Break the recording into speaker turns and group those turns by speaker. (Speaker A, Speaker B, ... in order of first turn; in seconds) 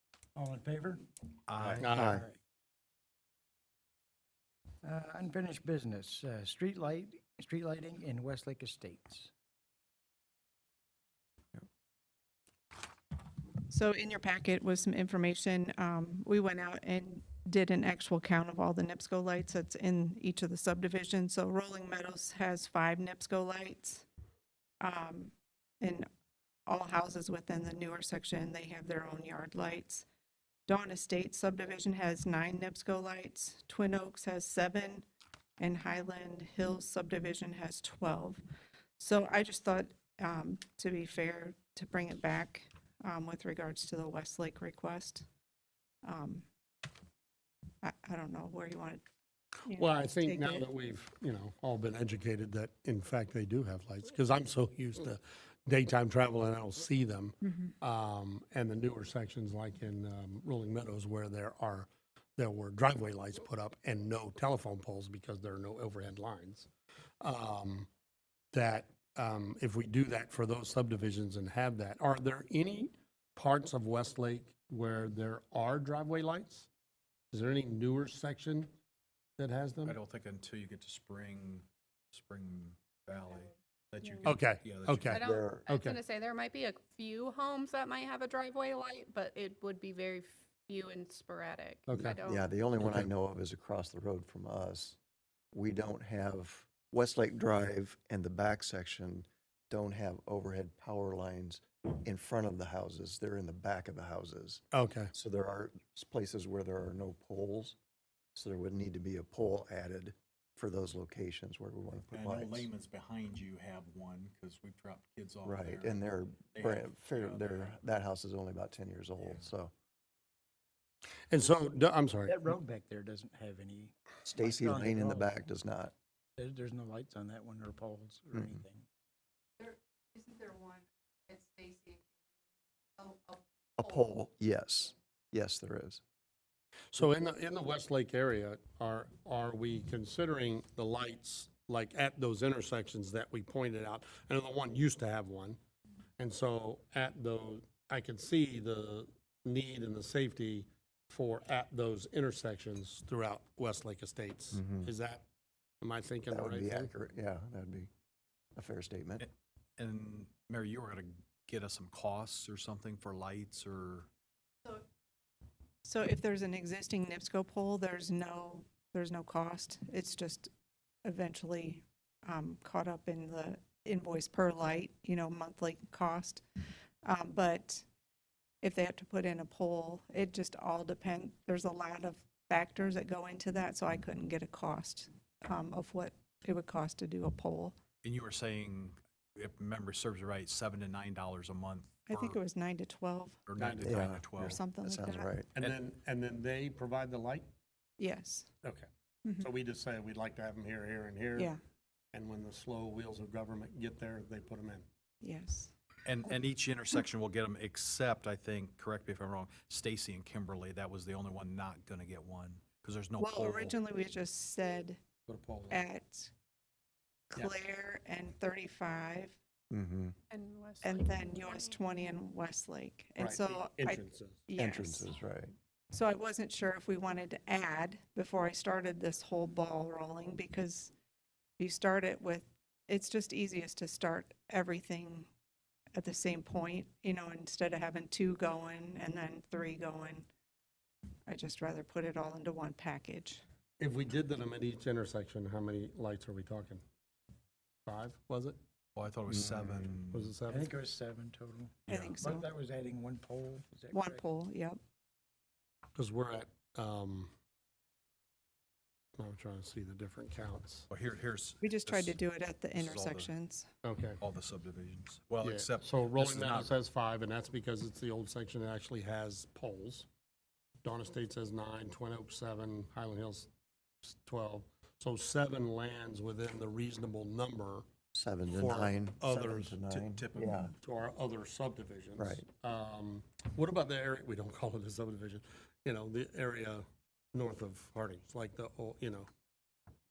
Speaker A: 0.3-2.3, 4.8-9.3, 122.2-125.5, 126.4-128.9, 250.5-254.2
Speaker B: 1.5-1.9, 79.8-85.2, 112.1-117.8, 119.2-119.5, 159.2-164.1, 188.0-192.4, 193.5-194.6, 206.1-213.8, 248.9-250.3, 260.9-262.2, 262.7-263.3, 264.2-266.7, 279.9-280.7
Speaker C: 1.8-2.2, 49.7-66.7, 67.2-67.9, 68.5-76.7, 77.3-78.7, 79.4-80.0, 84.2-86.0, 91.9-92.2, 92.8-93.1, 104.7-105.1, 121.3-122.3, 136.9-145.6, 146.2-155.2, 155.8-156.9, 193.6-194.0, 195.5-197.5, 198.6-201.5, 202.1-204.8, 215.3-215.8, 223.2-224.4, 243.8-246.8, 247.8-248.6, 250.1-250.7, 255.9-257.3, 259.2-260.9, 263.8-264.2, 265.4-270.1, 270.8-273.5, 274.0-277.9, 278.5-279.8, 280.6-289.3
Speaker D: 1.9-2.2, 85.1-85.7, 92.2-95.0, 95.5-107.8, 108.3-112.7, 115.4-119.7, 124.2-125.9, 128.3-128.6, 133.8-136.0, 154.5-154.9, 156.3-157.9, 158.6-159.2, 193.8-195.5, 219.7-220.1, 224.6-225.5, 249.3-249.9, 278.1-280.7, 282.2-282.4
Speaker E: 13.7-24.0, 24.8-26.1, 26.7-30.1, 30.7-35.0, 35.6-38.4, 39.0-45.2, 46.0-46.5, 47.8-49.0, 49.7-50.6, 129.6-132.0, 133.0-133.3, 165.8-170.5, 171.0-176.4, 177.0-177.8, 178.6-187.7, 192.1-193.4, 194.4-195.3, 198.0-198.5, 205.2-205.7, 213.2-215.0, 215.7-216.3, 217.3-219.4, 220.8-225.1, 225.9-230.9, 231.6-235.3, 235.9-240.3, 241.3-243.4, 251.9-252.5, 253.9-254.8, 261.6-263.7
Speaker F: 85.1-92.5, 220.3-221.8